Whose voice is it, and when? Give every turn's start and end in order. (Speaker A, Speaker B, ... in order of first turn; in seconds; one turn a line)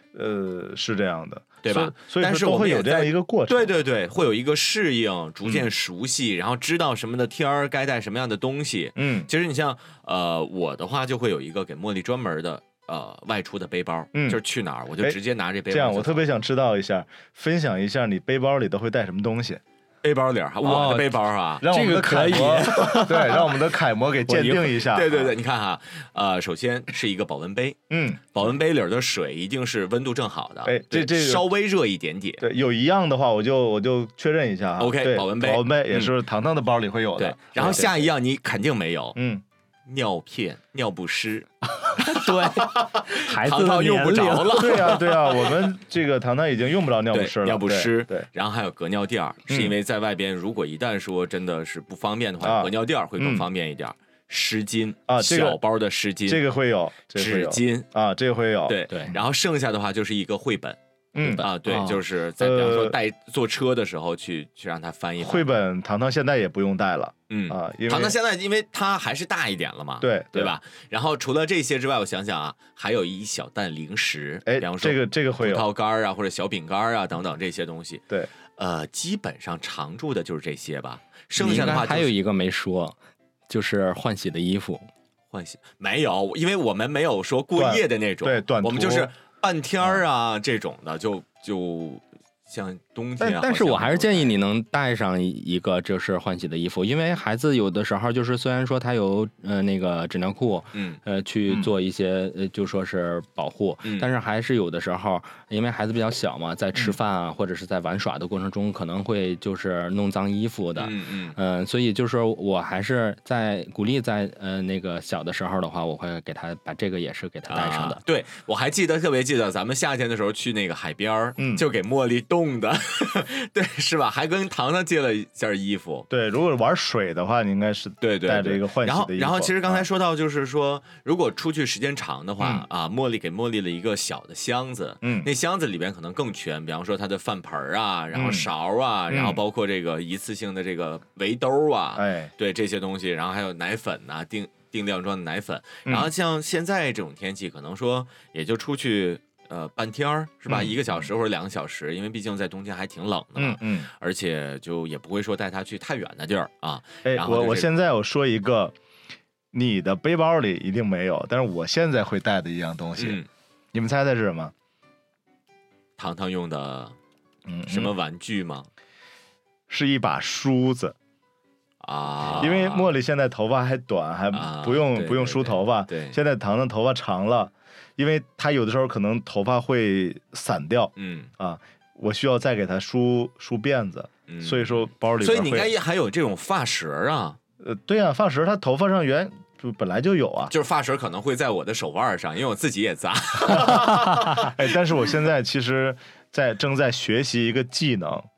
Speaker A: 0.1-3.8
Speaker B: 1.6-16.3
Speaker A: 5.4-5.7
Speaker A: 9.0-9.3
Speaker A: 14.1-14.4
Speaker A: 15.7-19.6
Speaker B: 20.0-21.7
Speaker C: 20.6-23.4
Speaker A: 21.6-25.3
Speaker B: 22.7-23.5
Speaker C: 24.3-24.6
Speaker B: 24.4-27.8
Speaker A: 27.9-28.5
Speaker B: 28.3-32.5
Speaker A: 30.6-31.4
Speaker A: 32.4-38.1
Speaker B: 34.8-36.1
Speaker B: 37.2-39.2
Speaker A: 39.1-39.4
Speaker B: 39.9-45.6
Speaker C: 42.0-45.0
Speaker A: 44.5-48.3
Speaker B: 47.1-56.4
Speaker A: 49.5-49.8
Speaker A: 52.4-53.5
Speaker A: 55.1-55.6
Speaker A: 56.2-59.2
Speaker B: 57.1-57.9
Speaker B: 58.7-60.8
Speaker A: 61.1-61.5
Speaker C: 61.2-62.0
Speaker B: 61.4-65.5
Speaker A: 62.4-63.0
Speaker A: 65.2-68.2
Speaker B: 67.3-78.0
Speaker A: 70.0-70.6
Speaker A: 74.5-75.7
Speaker B: 78.6-82.1
Speaker A: 81.4-81.9
Speaker C: 81.4-83.0
Speaker C: 83.5-84.9
Speaker B: 85.3-94.3
Speaker A: 87.5-89.1
Speaker C: 93.2-118.0
Speaker B: 100.7-101.0
Speaker B: 110.8-111.3
Speaker B: 117.5-126.1
Speaker A: 121.4-121.6
Speaker A: 126.1-129.9
Speaker B: 128.0-157.7
Speaker A: 132.4-132.6
Speaker A: 135.0-135.3
Speaker A: 138.1-138.5
Speaker A: 139.1-139.4
Speaker A: 141.9-142.3
Speaker A: 145.8-146.1
Speaker A: 150.5-150.8
Speaker A: 153.3-153.9
Speaker A: 157.0-158.7
Speaker A: 159.5-163.2
Speaker B: 163.0-163.3
Speaker A: 163.7-164.5
Speaker B: 166.0-166.9
Speaker A: 167.5-167.9
Speaker B: 167.7-168.7
Speaker A: 169.7-170.9
Speaker B: 171.8-172.9
Speaker A: 172.3-185.7
Speaker B: 174.3-176.2
Speaker B: 181.0-181.3
Speaker B: 184.3-187.4
Speaker A: 187.6-190.5
Speaker B: 190.5-194.6
Speaker A: 193.5-193.8
Speaker A: 194.4-198.3